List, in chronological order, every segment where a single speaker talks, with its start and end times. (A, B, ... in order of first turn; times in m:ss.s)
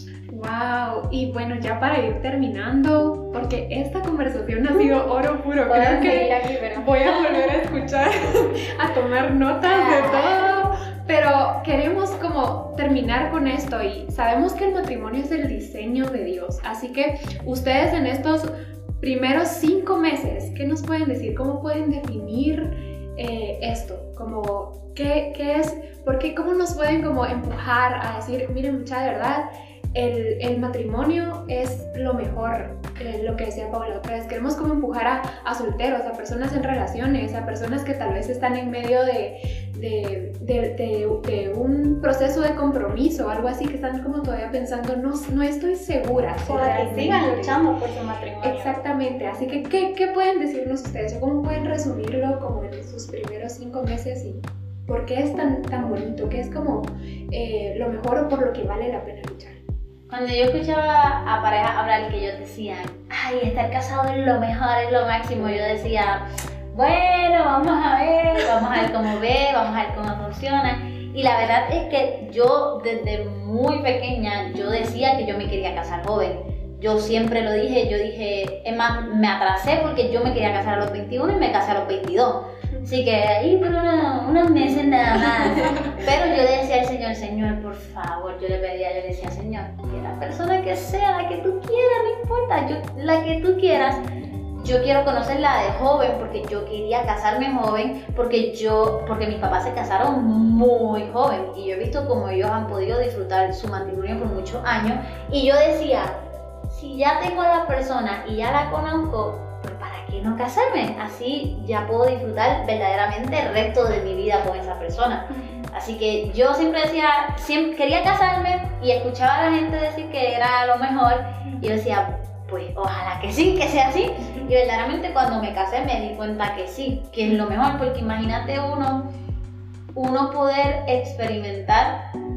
0:00.3-0:47.6 A
0:04.7-0:05.0 B
0:05.6-0:07.4 B
0:09.6-0:10.5 B
0:46.4-0:48.8 B
0:48.4-0:59.6 A
1:00.1-1:34.0 C
1:34.6-2:09.1 C
1:55.3-1:55.7 B
2:09.9-2:12.1 C